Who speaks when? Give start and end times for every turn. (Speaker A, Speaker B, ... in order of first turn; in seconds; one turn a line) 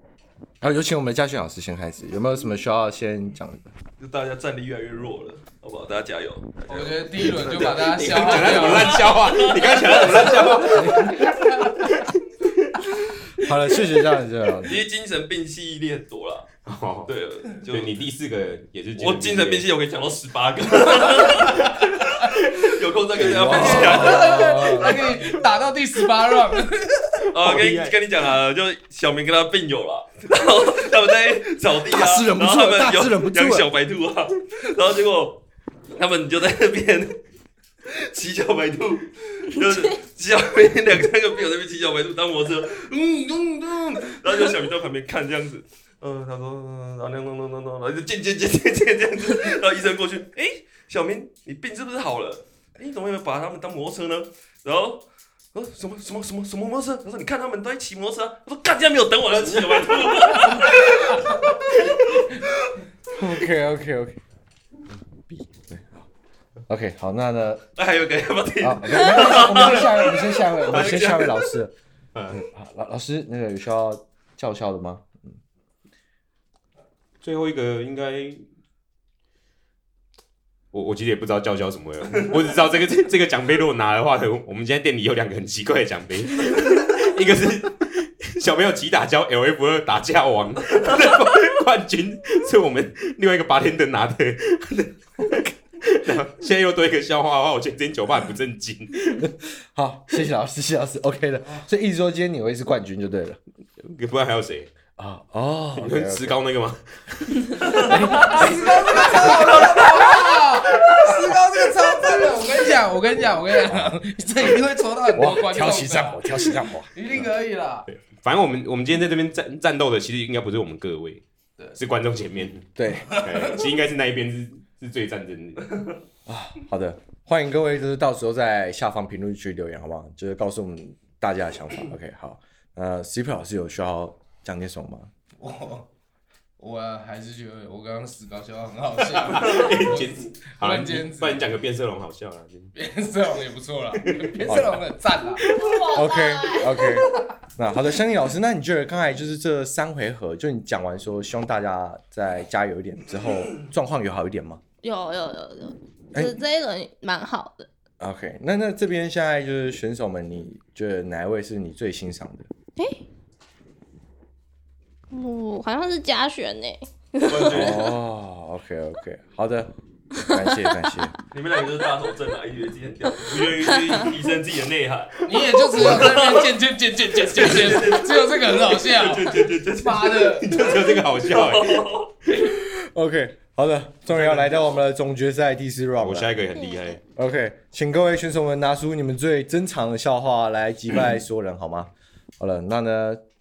Speaker A: 0.6-3.7
Speaker B: 4.0-10.9
Speaker C: 6.7-9.1
Speaker D: 7.2-11.3
Speaker A: 10.7-11.2
Speaker C: 11.0-11.9
Speaker A: 13.4-14.8
Speaker B: 14.6-16.5
Speaker D: 16.6-17.1
Speaker B: 17.1-17.9
Speaker D: 17.6-19.6
Speaker B: 19.0-21.8
Speaker B: 22.3-25.0
Speaker A: 23.2-25.0
Speaker D: 23.4-23.8
Speaker C: 23.5-27.0
Speaker B: 27.3-35.4
Speaker D: 27.4-28.0
Speaker A: 31.9-33.7
Speaker B: 35.9-37.2
Speaker B: 37.9-55.0
Speaker B: 55.5-62.5
Speaker D: 59.5-60.5
Speaker A: 63.1-64.2
Speaker A: 65.3-66.1
Speaker A: 66.7-67.6
Speaker B: 67.8-71.5
Speaker A: 68.6-71.7
Speaker D: 72.1-72.4
Speaker A: 72.3-75.4
Speaker D: 77.2-78.4
Speaker D: 80.7-99.3
Speaker A: 99.2-103.4
Speaker D: 103.8-104.7
Speaker A: 105.0-106.4
Speaker D: 105.8-107.9
Speaker B: 107.6-109.8
Speaker A: 107.8-109.5
Speaker C: 107.9-117.9
Speaker A: 113.6-113.9
Speaker A: 115.1-116.9
Speaker D: 117.9-121.2
Speaker D: 121.7-125.8
Speaker A: 122.8-123.2
Speaker C: 123.1-123.6
Speaker A: 126.2-135.1
Speaker C: 135.4-135.9
Speaker C: 136.6-141.4
Speaker D: 139.1-142.7
Speaker C: 142.7-145.4
Speaker A: 144.4-144.8
Speaker D: 145.4-145.8
Speaker E: 145.5-147.0
Speaker A: 145.9-154.6
Speaker E: 154.8-157.7
Speaker A: 158.0-162.5
Speaker E: 162.8-163.0
Speaker E: 165.1-167.9
Speaker B: 167.2-167.9
Speaker A: 167.4-169.7
Speaker A: 170.2-171.1
Speaker B: 171.3-176.5
Speaker C: 175.2-180.6
Speaker B: 177.2-182.1
Speaker D: 180.4-181.9
Speaker A: 182.4-186.3
Speaker B: 184.1-184.8
Speaker D: 186.0-187.0
Speaker E: 186.6-187.0
Speaker A: 187.2-193.2